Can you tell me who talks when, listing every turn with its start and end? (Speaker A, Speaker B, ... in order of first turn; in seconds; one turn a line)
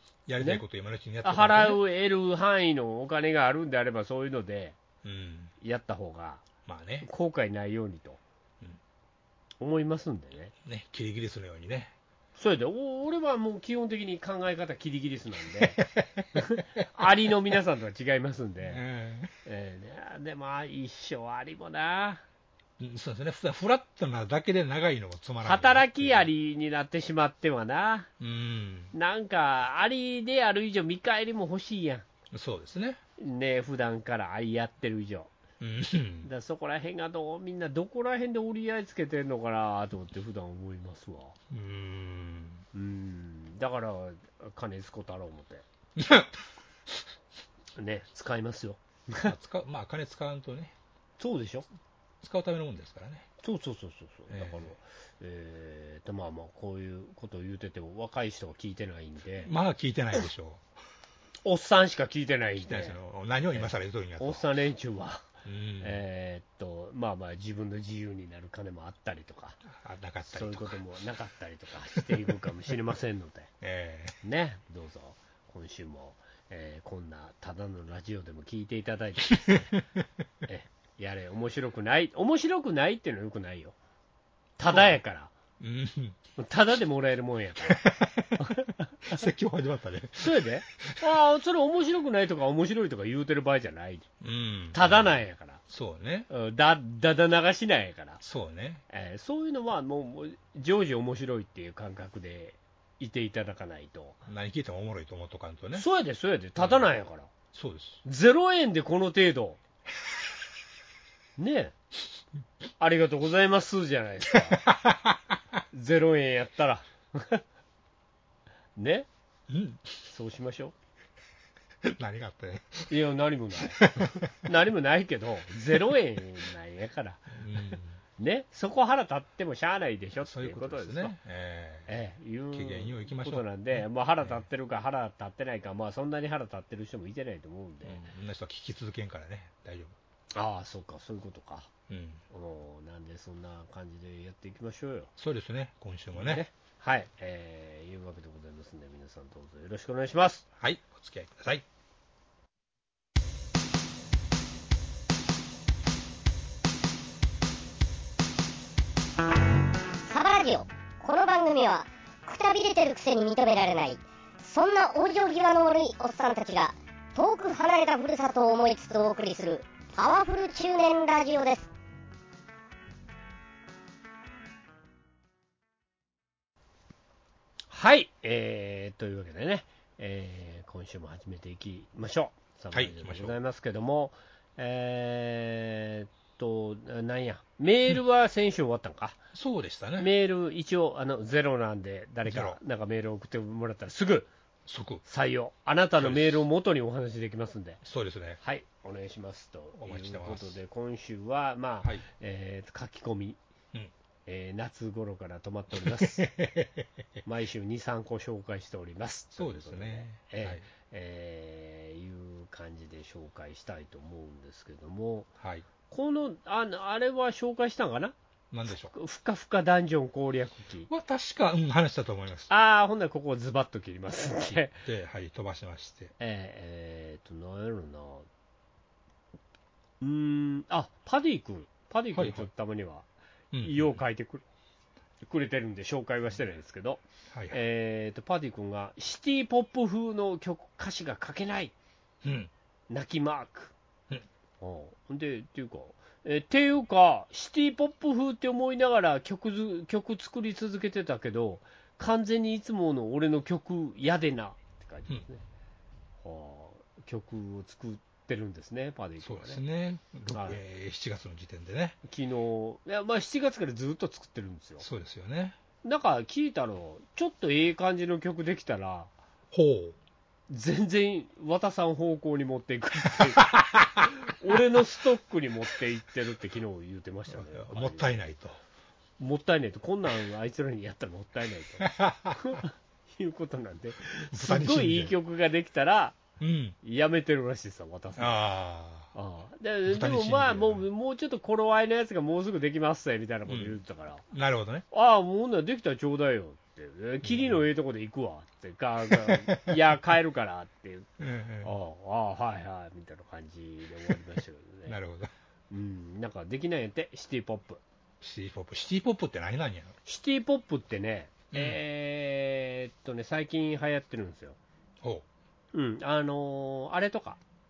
Speaker A: 0.3-1.8
Speaker B: 0.4-0.6
Speaker B: 1.2-4.8
Speaker A: 5.0-5.5
Speaker B: 5.6-6.4
Speaker A: 6.7-7.1
Speaker B: 7.0-8.2
Speaker B: 9.6-10.5
Speaker A: 10.7-11.9
Speaker B: 12.4-15.8
Speaker A: 15.6-16.3
Speaker B: 16.4-18.8
Speaker A: 18.6-19.3
Speaker B: 19.4-22.2
Speaker A: 22.8-26.3
Speaker B: 25.4-28.1
Speaker A: 28.2-28.9
Speaker B: 28.9-32.1
Speaker A: 32.3-33.0
Speaker B: 33.2-35.3
Speaker A: 35.6-36.3
Speaker B: 36.2-41.4
Speaker A: 41.5-42.6
Speaker B: 42.7-45.6
Speaker A: 46.0-47.1
Speaker B: 47.8-49.3
Speaker A: 49.2-50.7
Speaker B: 51.2-51.7
Speaker A: 52.2-53.3
Speaker B: 53.4-59.5
Speaker A: 54.3-54.8
Speaker A: 59.4-60.7
Speaker B: 61.5-63.0
Speaker A: 62.6-64.5
Speaker B: 63.5-65.3
Speaker A: 65.5-66.0
Speaker B: 65.8-69.6
Speaker A: 69.7-70.8
Speaker B: 70.3-73.5
Speaker A: 73.6-74.2
Speaker B: 74.2-79.7
Speaker B: 80.5-83.8
Speaker B: 84.6-85.3
Speaker A: 84.7-85.0
Speaker A: 85.6-86.2
Speaker B: 86.4-87.8
Speaker A: 87.7-88.5
Speaker B: 88.4-89.2
Speaker A: 89.1-91.0
Speaker B: 90.2-94.1
Speaker A: 94.2-96.3
Speaker B: 94.7-95.6
Speaker B: 96.3-98.2
Speaker A: 98.2-98.8
Speaker B: 98.9-104.2
Speaker A: 104.3-105.9
Speaker B: 105.8-107.3
Speaker A: 106.6-106.9
Speaker A: 107.5-108.0
Speaker B: 108.0-109.6
Speaker B: 111.4-111.8
Speaker B: 112.8-114.6
Speaker A: 114.5-115.3
Speaker B: 115.7-117.4
Speaker B: 118.8-119.1
Speaker A: 119.5-120.0
Speaker B: 120.1-120.7
Speaker A: 121.8-122.9
Speaker B: 122.9-131.2
Speaker A: 123.7-124.3
Speaker A: 127.3-128.0
Speaker A: 130.2-131.9
Speaker B: 131.9-138.0
Speaker A: 132.5-134.4
Speaker A: 137.8-140.0
Speaker B: 140.3-141.7
Speaker A: 141.9-142.2
Speaker B: 142.3-145.1
Speaker A: 145.2-146.4
Speaker B: 146.1-150.5
Speaker A: 150.6-151.7
Speaker C: 160.1-171.7
Speaker B: 177.7-189.2
Speaker A: 182.7-183.3
Speaker A: 189.3-190.1
Speaker B: 190.0-194.3
Speaker A: 192.2-192.6
Speaker A: 194.7-195.0
Speaker B: 195.1-197.8
Speaker A: 196.0-196.4
Speaker A: 197.8-198.4
Speaker B: 198.4-203.4
Speaker A: 199.8-200.6
Speaker B: 204.3-206.3
Speaker A: 205.8-206.9
Speaker B: 207.3-215.3
Speaker A: 209.4-210.7
Speaker A: 215.4-215.7
Speaker B: 215.9-218.2
Speaker A: 218.5-218.9
Speaker B: 218.7-220.9
Speaker A: 220.9-222.5
Speaker B: 222.5-224.8
Speaker A: 224.8-226.1
Speaker B: 226.2-228.3
Speaker B: 230.0-233.1
Speaker A: 232.1-232.5
Speaker A: 233.5-234.0
Speaker B: 233.6-234.4
Speaker B: 235.2-241.7
Speaker A: 237.3-237.6
Speaker A: 242.2-242.5
Speaker B: 242.9-243.7
Speaker B: 244.6-255.4
Speaker B: 256.2-259.6
Speaker A: 259.2-262.0
Speaker B: 260.3-260.6
Speaker B: 262.1-264.9
Speaker A: 264.8-265.6
Speaker B: 265.8-269.1
Speaker A: 269.5-270.0
Speaker B: 270.5-278.1
Speaker A: 273.2-274.1
Speaker A: 277.3-278.6
Speaker B: 279.2-286.2
Speaker A: 281.8-282.6
Speaker A: 284.3-285.1
Speaker A: 286.4-286.8
Speaker B: 286.8-288.4
Speaker A: 288.2-289.1
Speaker B: 289.1-294.2
Speaker A: 289.9-290.9
Speaker A: 293.5-293.8
Speaker A: 294.3-294.9
Speaker B: 294.9-301.1
Speaker A: 297.2-297.6
Speaker A: 299.1-299.8
Speaker A: 301.2-301.7
Speaker B: 301.6-305.0
Speaker A: 304.9-305.3
Speaker B: 305.7-307.8
Speaker A: 308.2-310.0
Speaker B: 310.1-314.6
Speaker A: 311.5-311.8
Speaker B: 315.7-317.4